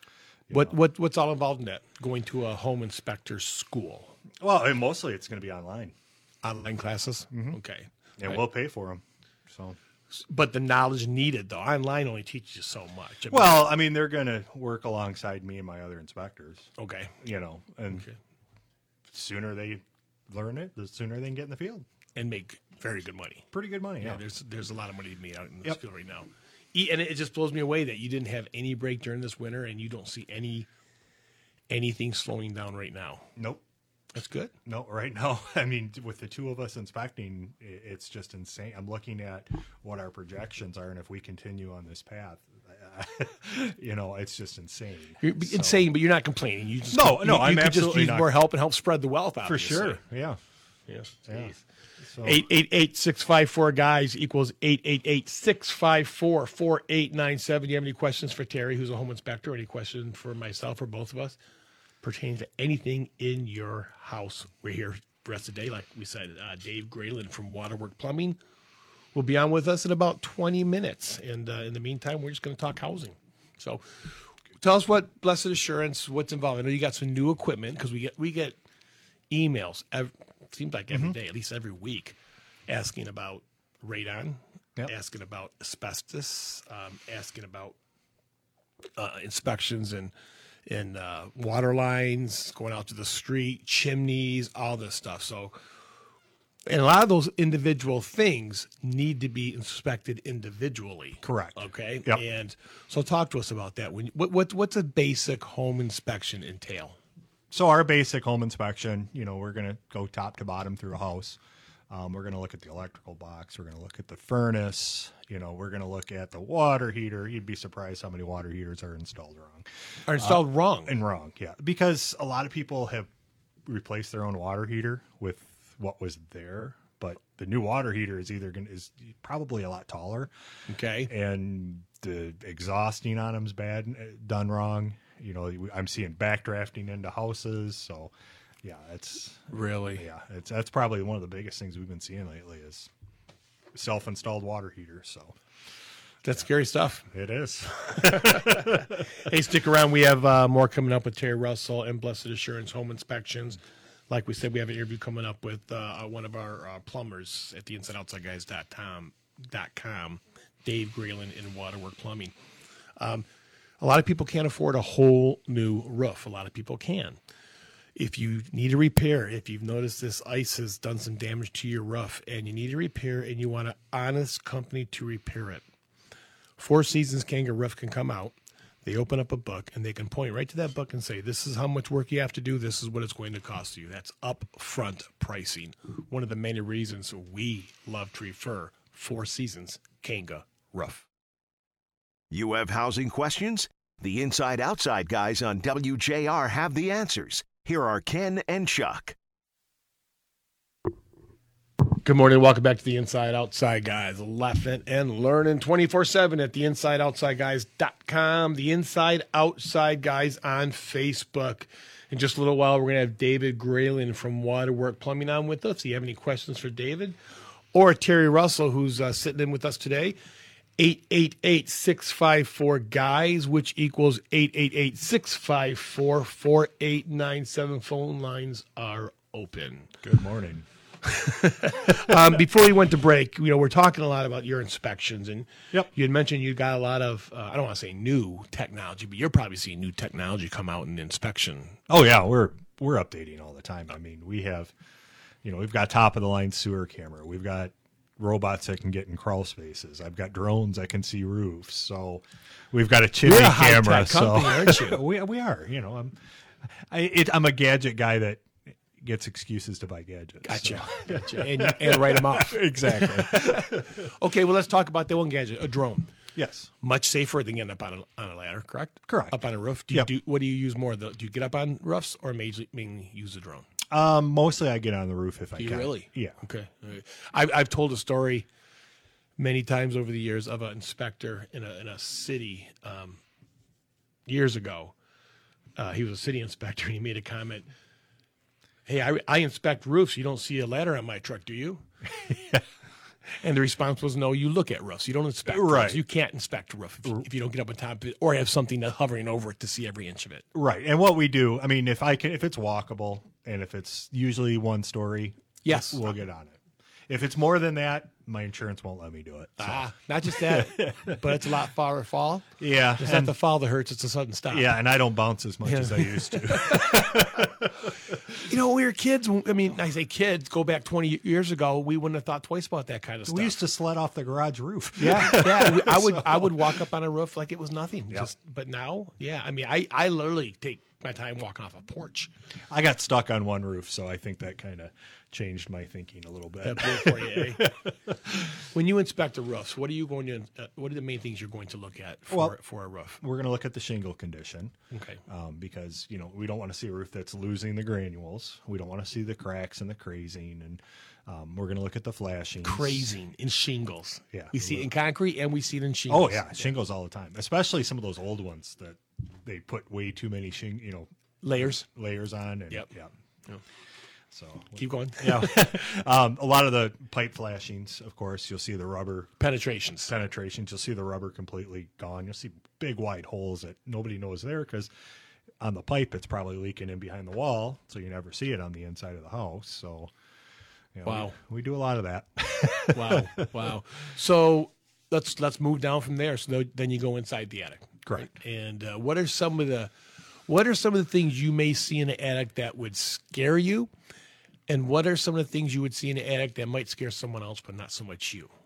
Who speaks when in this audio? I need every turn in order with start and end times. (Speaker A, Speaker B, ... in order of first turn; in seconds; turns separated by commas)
Speaker A: 0.5-0.8, Speaker B: 0.5-4.2, Speaker A: 4.4-6.0, Speaker B: 6.4-8.4, Speaker A: 7.3-7.6, Speaker A: 8.2-9.8, Speaker B: 10.1-13.7, Speaker A: 13.3-18.1, Speaker B: 16.8-17.1, Speaker B: 17.9-18.2, Speaker A: 19.1-21.9, Speaker B: 22.2-23.5, Speaker A: 23.5-24.2, Speaker B: 24.0-30.7, Speaker B: 31.7-33.3, Speaker A: 33.4-33.6, Speaker B: 34.1-34.5, Speaker A: 34.6-45.9, Speaker B: 45.2-50.0, Speaker A: 46.9-48.3, Speaker A: 49.4-50.4, Speaker B: 50.9-51.6, Speaker A: 51.3-52.5, Speaker B: 52.2-61.4, Speaker B: 62.0-68.4, Speaker B: 69.1-78.6, Speaker B: 79.3-82.2, Speaker B: 82.7-87.8, Speaker B: 89.0-90.1, Speaker B: 90.7-95.6, Speaker B: 96.7-107.0, Speaker A: 101.2-102.2, Speaker A: 107.5-123.1, Speaker B: 120.1-120.9, Speaker A: 123.7-130.3, Speaker B: 130.7-131.1, Speaker A: 131.1-142.9, Speaker B: 139.5-140.1, Speaker A: 143.7-145.4, Speaker B: 146.2-147.1, Speaker A: 147.1-149.2, Speaker B: 148.0-153.6, Speaker B: 154.1-162.3, Speaker B: 163.0-163.3, Speaker B: 163.8-167.2, Speaker B: 167.9-175.6, Speaker B: 176.6-191.1, Speaker C: 192.3-199.2, Speaker B: 201.9-217.2, Speaker B: 217.7-220.2, Speaker B: 220.8-229.9, Speaker A: 230.0-230.7, Speaker B: 231.0-241.8, Speaker A: 241.9-244.7, Speaker A: 245.4-256.2, Speaker B: 253.2-255.0, Speaker A: 256.9-264.1, Speaker B: 260.4-266.1, Speaker A: 266.4-266.7, Speaker B: 266.8-273.7, Speaker A: 269.1-269.4, Speaker A: 273.9-276.4, Speaker B: 275.6-278.5, Speaker B: 279.4-283.2, Speaker B: 284.3-284.9, Speaker B: 285.8-287.7, Speaker B: 288.9-291.8, Speaker A: 292.3-292.6, Speaker B: 293.3-300.4, Speaker A: 295.5-296.0, Speaker A: 300.5-306.6, Speaker B: 305.6-306.0, Speaker A: 307.1-311.5, Speaker B: 309.6-314.7, Speaker A: 312.6-313.4, Speaker A: 314.5-318.4, Speaker B: 315.6-317.4, Speaker B: 318.4-323.6, Speaker A: 323.3-326.8, Speaker B: 325.0-332.3, Speaker A: 332.7-338.6, Speaker B: 336.6-337.6, Speaker B: 338.7-343.2, Speaker A: 342.3-342.6, Speaker A: 343.2-344.8, Speaker B: 344.9-345.2, Speaker A: 345.3-353.1, Speaker B: 352.6-356.7, Speaker A: 354.3-354.9, Speaker A: 356.1-361.1, Speaker B: 361.4-361.9, Speaker A: 361.9-363.1, Speaker A: 364.3-369.3, Speaker B: 364.8-365.7, Speaker B: 369.4-370.2, Speaker A: 370.1-374.9, Speaker A: 375.6-380.1, Speaker A: 380.9-383.7, Speaker B: 381.1-381.4, Speaker B: 382.9-389.9, Speaker A: 388.1-388.3, Speaker B: 390.5-393.9, Speaker B: 394.7-398.5